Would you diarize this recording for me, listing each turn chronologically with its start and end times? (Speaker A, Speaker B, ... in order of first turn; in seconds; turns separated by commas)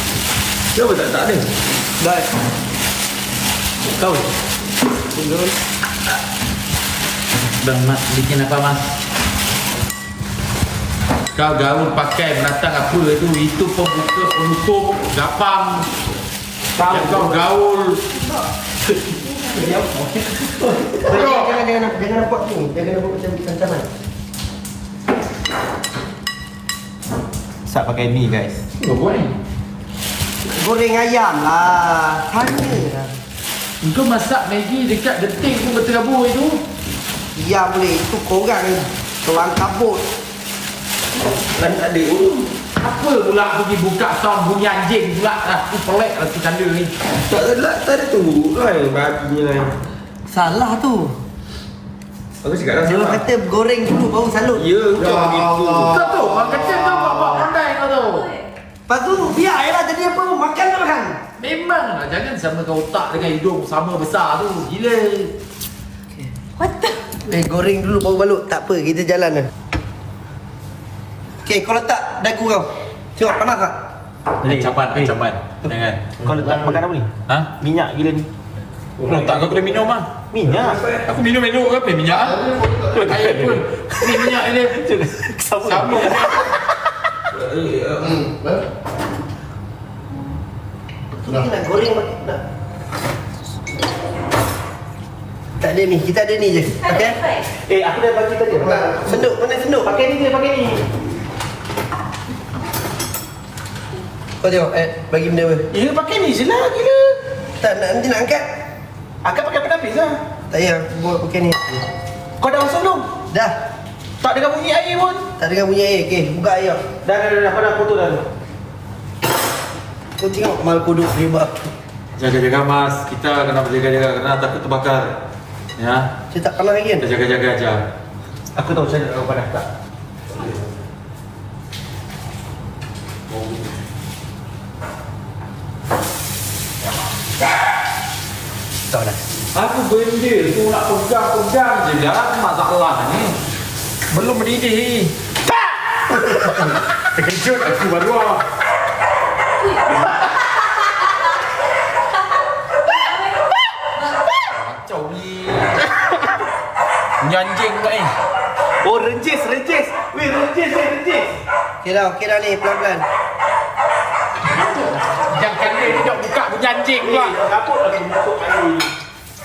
Speaker A: 0.7-1.5, Speaker B: 2.0-2.3, Speaker A: 4.0-4.3, Speaker B: 5.2-5.5, Speaker C: 7.6-8.8, Speaker C: 11.3-15.9, Speaker A: 16.8-17.4, Speaker C: 16.9-18.1, Speaker A: 19.3-21.1, Speaker B: 21.0-23.9, Speaker A: 27.7-28.7, Speaker C: 28.8-29.4, Speaker B: 30.6-33.1, Speaker C: 33.8-36.6, Speaker B: 37.4-40.0, Speaker A: 41.5-42.5, Speaker C: 42.8-46.9, Speaker A: 47.3-49.7, Speaker B: 50.3-51.2, Speaker A: 52.4-53.2, Speaker B: 52.8-54.6, Speaker A: 54.6-56.0, Speaker C: 55.9-58.4, Speaker B: 58.9-61.2, Speaker C: 61.4-65.3, Speaker B: 67.2-69.5, Speaker B: 71.5-73.8, Speaker A: 74.4-75.1, Speaker C: 74.4-76.2, Speaker A: 76.2-78.3, Speaker C: 77.3-77.5, Speaker C: 79.0-80.1, Speaker A: 79.0-79.6, Speaker A: 80.3-81.0, Speaker C: 81.0-84.8, Speaker A: 82.7-86.5, Speaker C: 85.6-86.5, Speaker A: 87.3-88.3, Speaker B: 91.2-92.4, Speaker B: 95.6-97.2, Speaker A: 97.5-99.3, Speaker B: 98.6-99.9, Speaker A: 99.8-100.9, Speaker B: 104.4-105.7, Speaker A: 105.7-107.3, Speaker B: 107.6-108.5, Speaker A: 109.2-110.2, Speaker B: 110.5-111.9, Speaker A: 112.4-113.1, Speaker B: 113.3-113.6, Speaker A: 114.2-115.3, Speaker B: 115.4-116.8, Speaker A: 117.0-118.2, Speaker B: 120.2-121.6, Speaker C: 122.2-125.1, Speaker C: 125.8-126.1, Speaker B: 126.3-127.1, Speaker C: 127.0-127.8, Speaker A: 128.6-129.7, Speaker C: 139.5-143.3, Speaker C: 144.1-145.1, Speaker C: 146.2-148.4, Speaker C: 154.4-155.9, Speaker C: 157.2-158.1, Speaker A: 158.8-161.4, Speaker B: 161.8-163.1, Speaker C: 165.2-167.4, Speaker A: 167.0-168.9